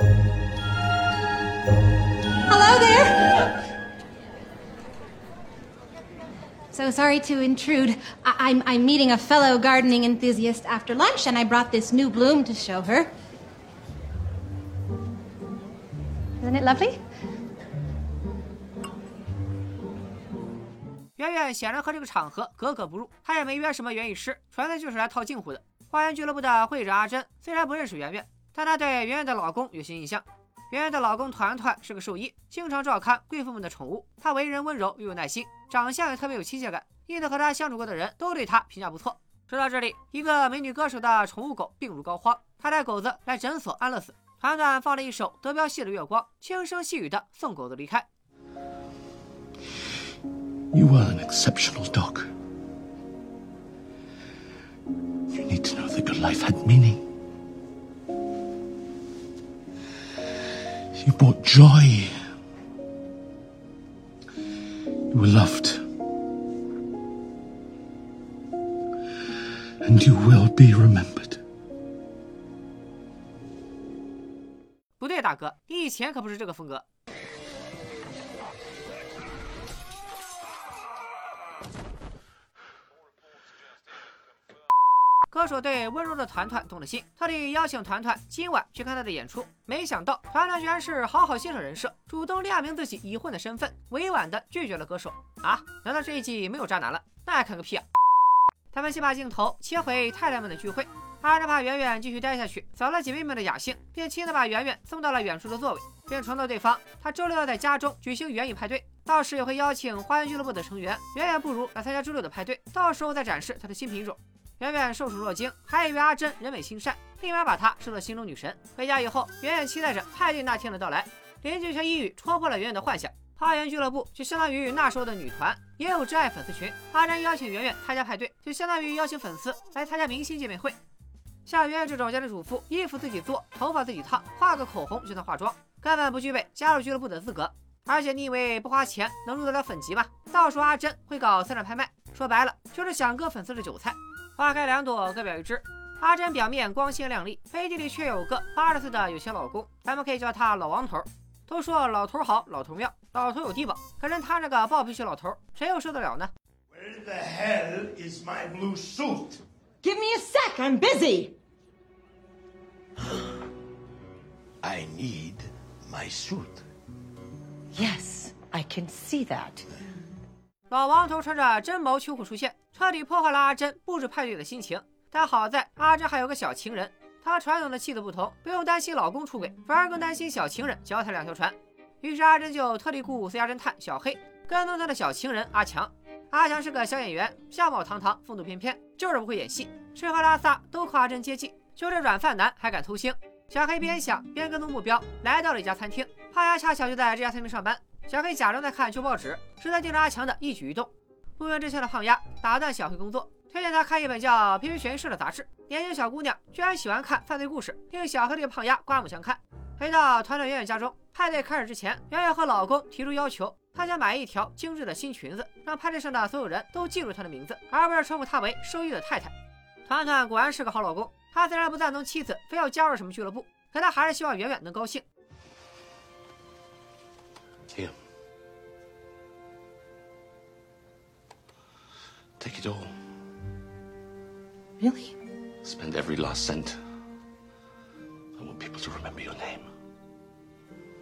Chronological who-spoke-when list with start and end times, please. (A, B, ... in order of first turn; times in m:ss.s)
0:02.5-0:03.5 A
0:06.7-0:13.1 A
0:16.4-0:17.0 A
0:21.2-0:48.1 B
0:50.7-0:52.3 C
0:55.3-0:57.0 C
1:01.0-1:02.3 C
1:05.1-1:05.8 C
1:09.8-1:11.4 C
1:15.0-1:16.8 B
1:25.3-1:37.8 B
1:38.7-2:10.8 B
2:11.5-2:36.3 B
2:36.7-2:39.4 D
2:39.8-2:41.3 E
2:44.6-2:46.6 D
2:47.7-2:49.6 E
2:50.7-3:39.3 B
3:39.9-3:45.0 B
3:47.7-3:48.0 C
3:52.4-3:53.0 C
3:54.8-3:55.1 E
3:55.6-3:56.8 C
3:58.4-3:59.7 C